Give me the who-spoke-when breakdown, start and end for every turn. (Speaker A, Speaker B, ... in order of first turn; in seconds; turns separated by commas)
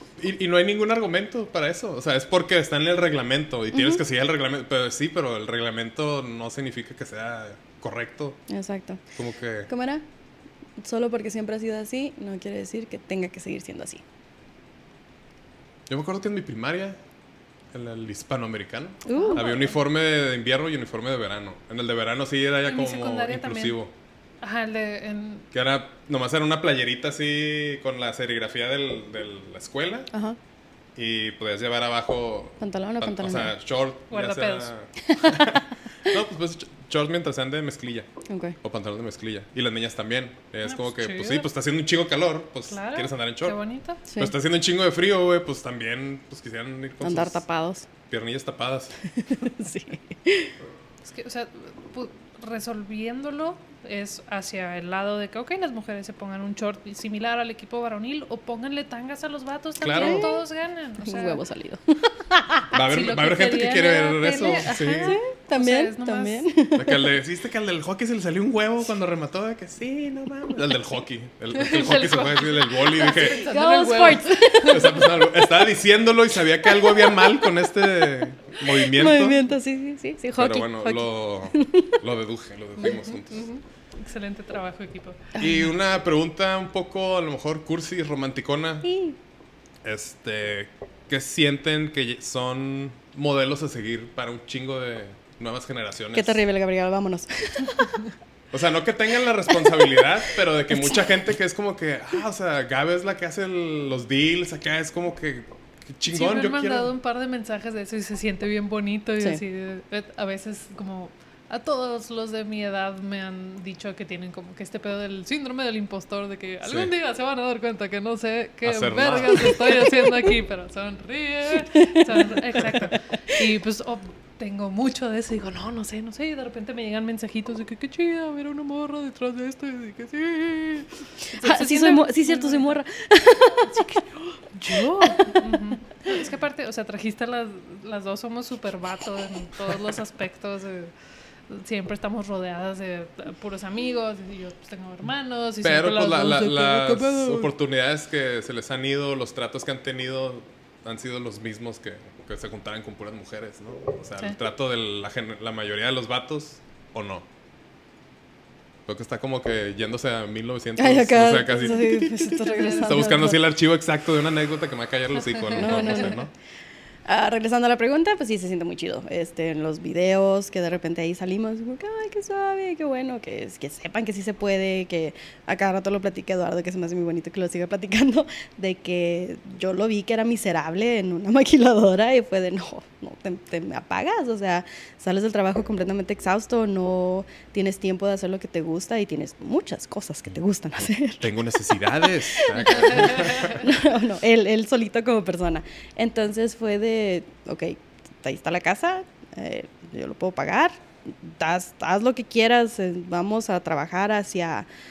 Speaker A: 0.2-8.4, Speaker B: 3.7-4.0, Speaker B: 8.5-9.0, Speaker A: 9.2-9.7, Speaker B: 9.7-10.0, Speaker B: 10.8-14.0, Speaker A: 15.9-17.0, Speaker A: 17.7-23.9, Speaker B: 19.1-19.5, Speaker C: 19.1-19.8, Speaker C: 22.6-23.8, Speaker C: 24.4-25.5, Speaker A: 25.5-30.1, Speaker B: 30.1-30.4, Speaker A: 31.0-38.1, Speaker B: 32.6-33.5, Speaker C: 34.1-34.7, Speaker B: 35.1-35.6, Speaker B: 38.3-38.6, Speaker A: 38.6-47.4, Speaker C: 40.6-41.5, Speaker C: 42.7-44.0, Speaker B: 44.1-44.3, Speaker B: 47.0-47.9, Speaker A: 48.1-49.0, Speaker B: 49.2-50.5, Speaker C: 51.0-61.4, Speaker A: 59.8-60.3, Speaker B: 60.0-60.4, Speaker B: 61.0-62.7, Speaker A: 62.7-65.2, Speaker C: 62.9-66.5, Speaker B: 65.0-67.1, Speaker A: 66.8-73.4, Speaker C: 71.5-75.1, Speaker B: 73.2-75.3, Speaker A: 74.7-79.4, Speaker B: 76.7-77.3, Speaker B: 78.6-82.0, Speaker A: 80.4-83.5, Speaker C: 82.8-85.3, Speaker A: 85.4-88.9, Speaker B: 85.4-85.7, Speaker B: 88.8-89.2, Speaker A: 89.8-96.4, Speaker B: 96.1-98.1, Speaker A: 98.5-106.9, Speaker B: 99.5-100.1, Speaker B: 100.7-101.1, Speaker C: 106.1-132.8, Speaker A: 116.6-116.9, Speaker A: 118.6-119.8, Speaker B: 121.7-122.4, Speaker B: 131.4-135.4, Speaker C: 133.7-134.0, Speaker C: 134.5-140.9, Speaker C: 141.5-147.5, Speaker A: 145.6-157.2, Speaker A: 158.9-166.3, Speaker B: 160.8-163.4, Speaker C: 161.6-163.2, Speaker C: 165.4-166.1, Speaker B: 165.6-166.2, Speaker B: 167.1-191.3, Speaker A: 191.2-193.7, Speaker B: 192.3-204.7, Speaker C: 192.7-193.6